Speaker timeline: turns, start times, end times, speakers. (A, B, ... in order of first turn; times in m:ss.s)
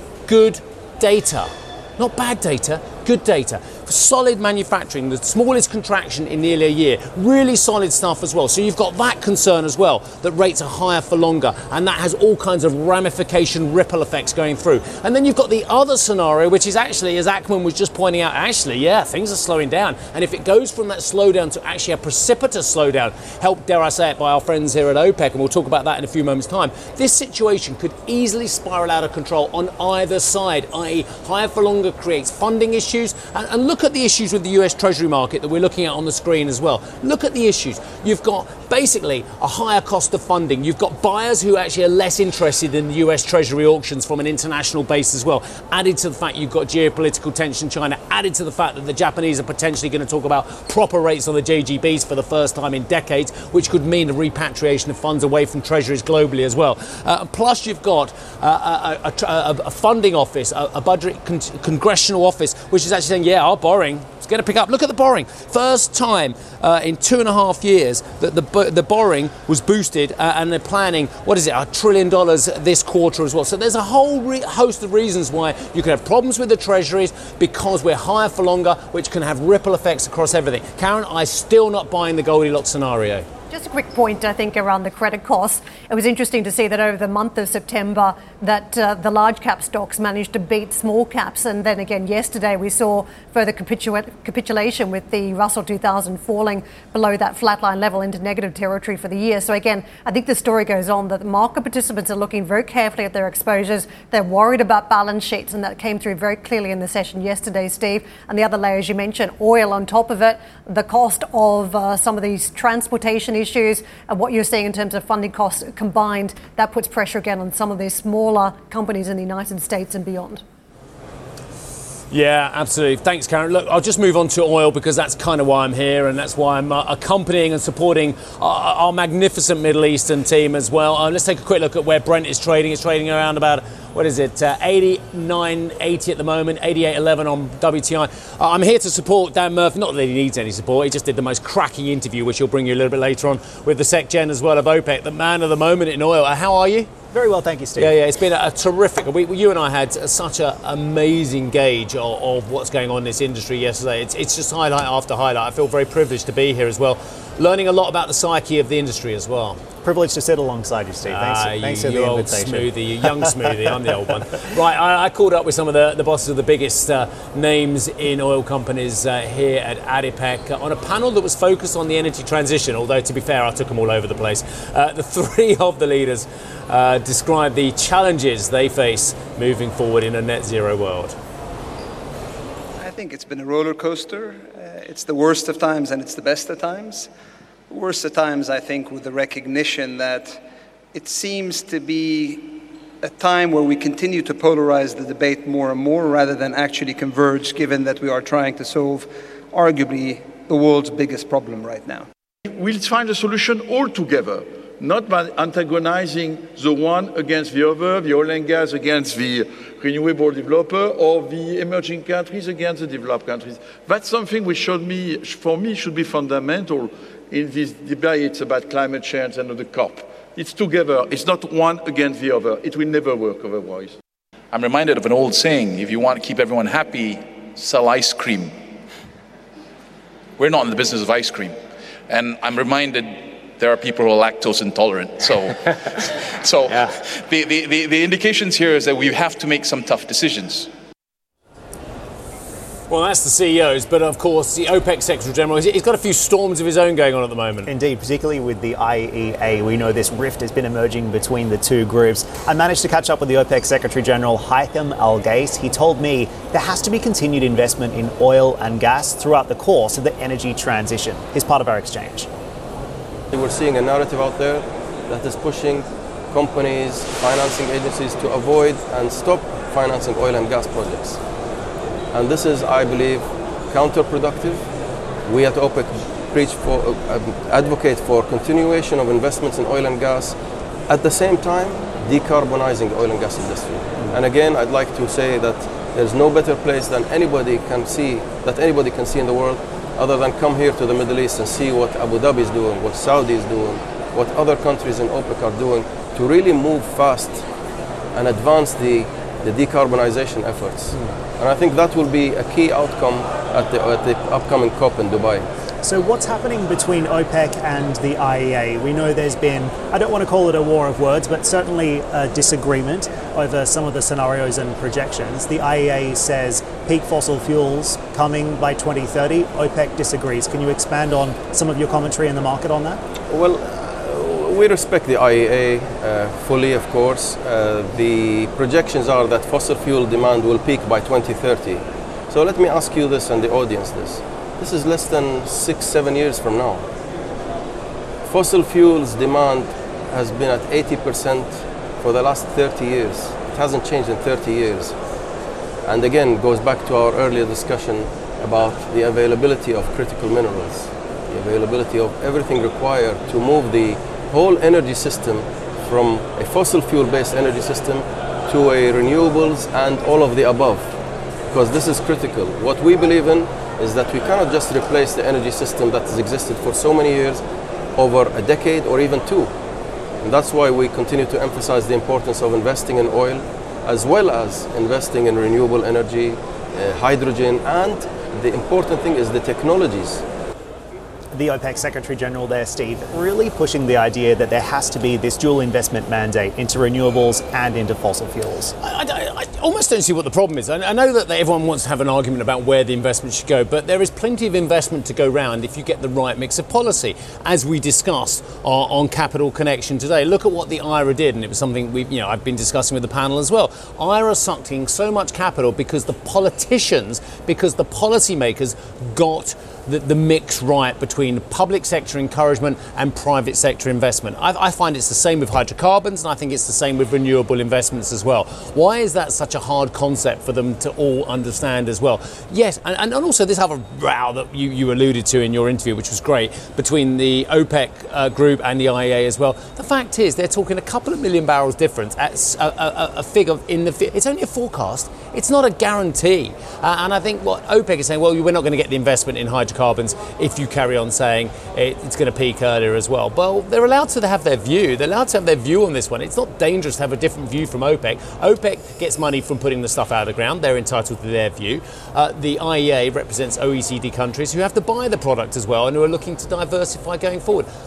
0:00.3-1:23.3 A
1:23.5-2:00.4 B
2:02.1-2:26.9 A
2:27.1-2:28.0 C
2:27.8-2:39.6 A
2:39.8-2:43.7 C
2:41.1-3:01.2 A
3:02.8-3:07.1 D
3:07.7-3:22.1 D
3:22.5-3:44.0 E
3:44.5-3:48.6 F
3:50.4-3:51.6 F
3:52.1-4:00.7 F
4:02.9-4:07.7 A
4:07.7-4:22.3 C
4:23.3-4:31.2 G
4:32.1-4:34.6 G
4:35.3-4:40.4 G
4:40.9-4:57.4 G
4:58.1-5:05.5 G
5:05.8-5:23.0 C
5:23.3-5:36.8 G
5:38.2-5:45.0 G
5:45.8-6:00.9 G
6:01.5-6:07.4 G
6:08.0-6:09.5 G
6:10.2-6:20.2 G
6:21.3-6:28.8 C
6:28.8-7:37.7 A